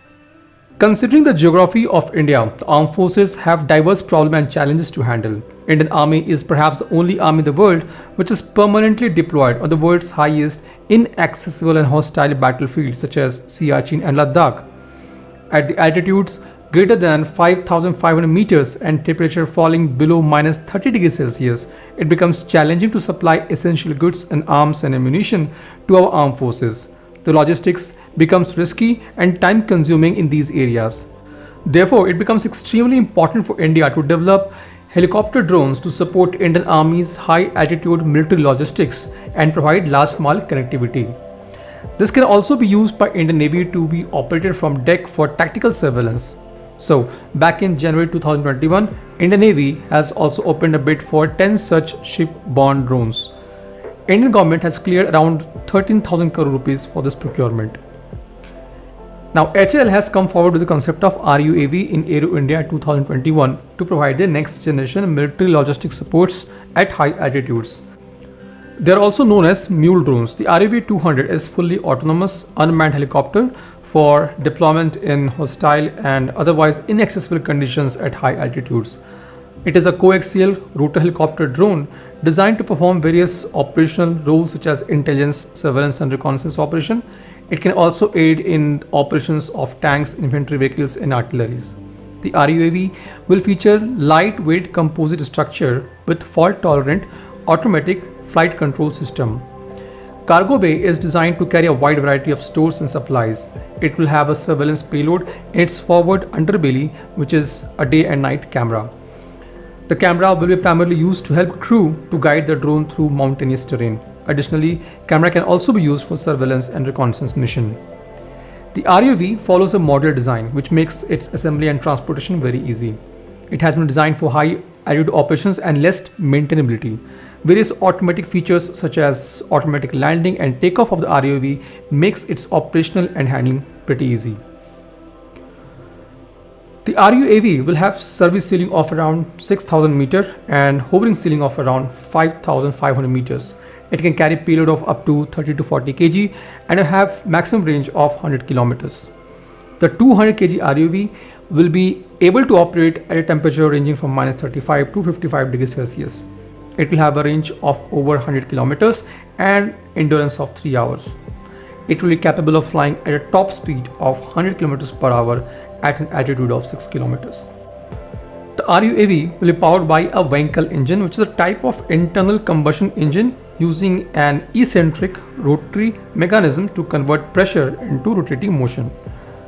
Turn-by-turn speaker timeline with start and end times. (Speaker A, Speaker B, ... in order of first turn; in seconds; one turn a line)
Speaker A: 0.8-14.7
Speaker A: 15.5-31.1
Speaker A: 31.7-41.1
Speaker A: 42.0-53.3
Speaker A: 54.1-57.8
Speaker A: 59.3-67.8
Speaker A: 68.8-79.0
Speaker A: 79.7-99.5
Speaker A: 100.3-108.9
Speaker A: 109.9-117.8
Speaker A: 118.7-123.0
Speaker A: 123.5-134.4
Speaker A: 136.8-149.1
Speaker A: 149.8-161.2
Speaker A: 161.9-167.5
Speaker A: 168.6-178.9